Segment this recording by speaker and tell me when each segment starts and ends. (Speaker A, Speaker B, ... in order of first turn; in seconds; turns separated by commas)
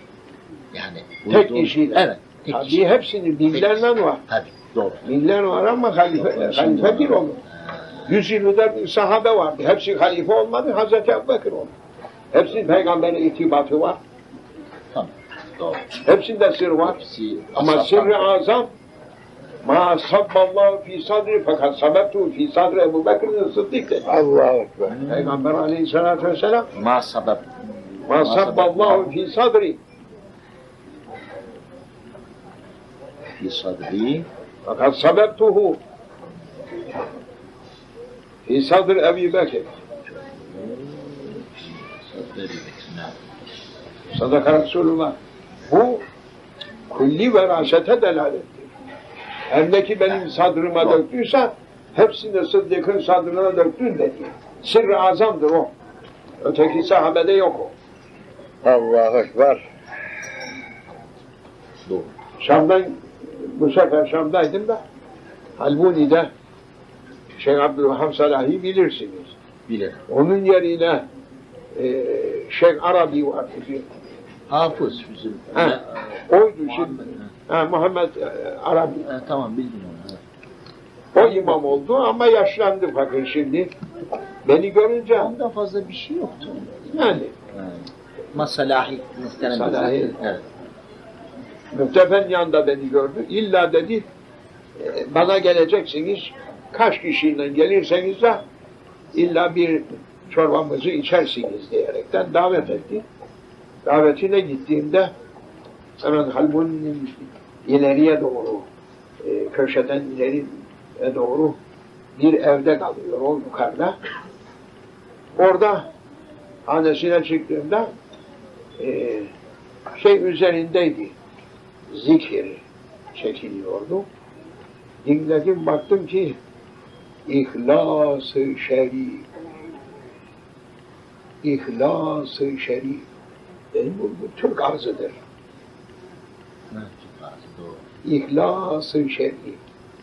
Speaker A: 0.7-5.1, Speaker B: 1.2-4.2, Speaker B: 5.0-7.4, Speaker A: 6.1-8.2, Speaker B: 8.1-11.7, Speaker B: 12.3-14.0, Speaker A: 14.9-16.0, Speaker B: 16.0-17.0, Speaker A: 16.8-18.4, Speaker B: 17.6-18.7, Speaker B: 19.6-24.2, Speaker C: 24.1-24.9, Speaker A: 24.8-25.4, Speaker B: 25.1-26.7, Speaker A: 26.7-27.4, Speaker B: 28.1-29.8, Speaker A: 28.1-29.1, Speaker A: 33.4-34.3, Speaker B: 34.6-35.8, Speaker B: 38.4-39.7, Speaker A: 40.0-43.2, Speaker B: 44.1-45.1, Speaker B: 45.7-46.0, Speaker B: 46.9-48.7, Speaker B: 49.5-55.7, Speaker B: 56.4-57.7, Speaker C: 58.6-59.6, Speaker A: 61.9-62.1, Speaker B: 62.4-64.8, Speaker B: 65.6-66.3, Speaker B: 67.4-69.3, Speaker A: 69.7-70.0, Speaker B: 70.1-71.0, Speaker B: 71.7-73.8, Speaker A: 74.5-77.3, Speaker B: 75.5-79.1, Speaker A: 79.0-80.2, Speaker B: 81.1-83.7, Speaker A: 81.2-81.8, Speaker B: 84.4-85.3, Speaker A: 85.0-86.8, Speaker B: 86.9-87.3, Speaker A: 87.5-90.4, Speaker B: 89.5-90.2, Speaker B: 91.7-94.0, Speaker B: 94.8-98.4, Speaker B: 99.1-103.0, Speaker B: 103.8-105.1, Speaker B: 106.0-108.7, Speaker B: 109.2-111.6, Speaker B: 112.2-114.0, Speaker B: 115.4-115.9, Speaker B: 116.7-117.9, Speaker B: 118.8-119.3, Speaker B: 120.0-121.1, Speaker B: 121.9-122.6, Speaker B: 123.1-124.0, Speaker B: 125.0-126.4, Speaker B: 127.3-129.3, Speaker B: 131.4-133.1, Speaker B: 133.7-135.2, Speaker A: 136.7-137.8, Speaker B: 138.0-139.6